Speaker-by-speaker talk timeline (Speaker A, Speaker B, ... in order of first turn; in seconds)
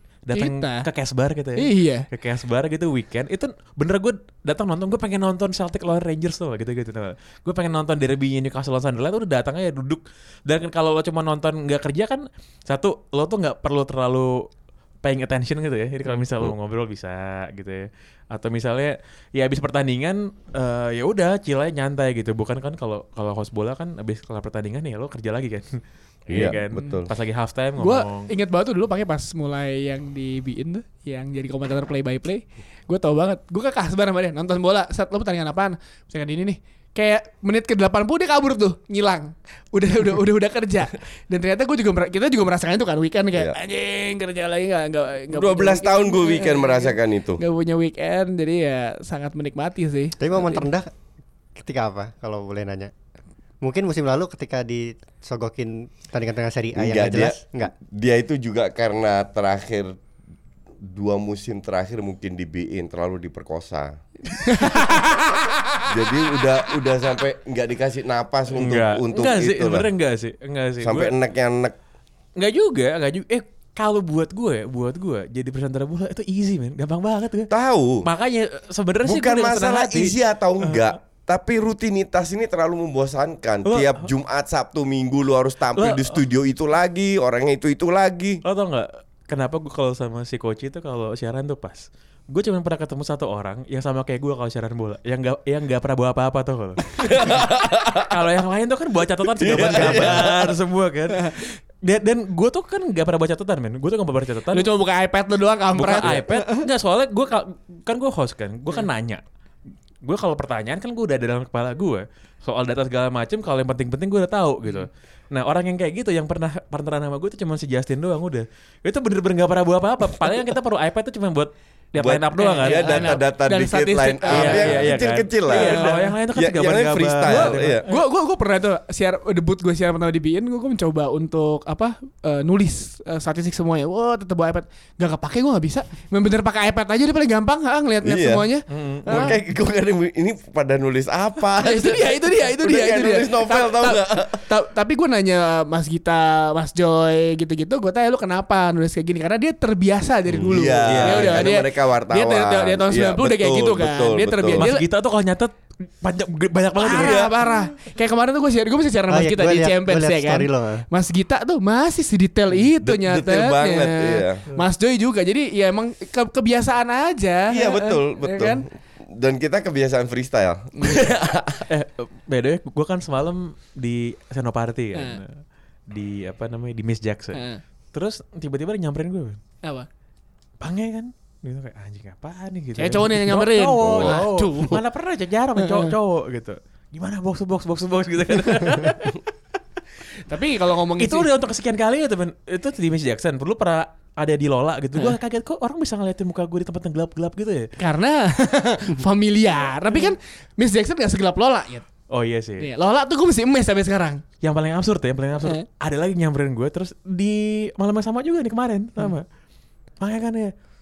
Speaker A: 0.2-14.5, 15.0-28.3, 68.5-71.1, 72.3-77.5, 78.0-80.9, 83.6-84.1, 85.8-86.2, 88.4-104.7, 105.8-109.2, 110.0-123.2, 124.2-127.9, 138.7-139.3, 150.3-151.4, 154.6-157.3, 171.7-177.4, 177.9-179.4, 180.6-189.2, 191.0-197.7, 202.1-202.7, 204.4-209.2, 210.0-210.5
Speaker B: 0.3-0.9, 1.6-2.0, 27.8-50.7, 64.5-65.8, 99.7-100.1, 104.5-106.6, 122.3-125.0, 125.5-126.1, 127.2-139.4, 141.6-154.8, 156.8-168.6, 170.8-171.0, 174.9-175.2, 177.3-177.6, 182.8-184.8, 185.6-185.9, 190.3-191.3, 197.8-201.9, 202.6-204.2
Speaker C: 26.3-27.1, 45.3-47.4, 56.8-60.0, 60.8-64.0, 65.8-69.9, 70.8-71.7, 77.5-78.0, 79.0-88.4, 97.0-98.1, 99.3-100.5, 122.0-127.8, 138.0-138.5, 139.1-144.4, 150.3-154.6, 156.9-157.3, 162.8-164.4, 167.5-171.6, 183.8-184.2
Speaker D: 50.2-50.9, 51.5-52.9, 53.6-57.7, 159.1-160.8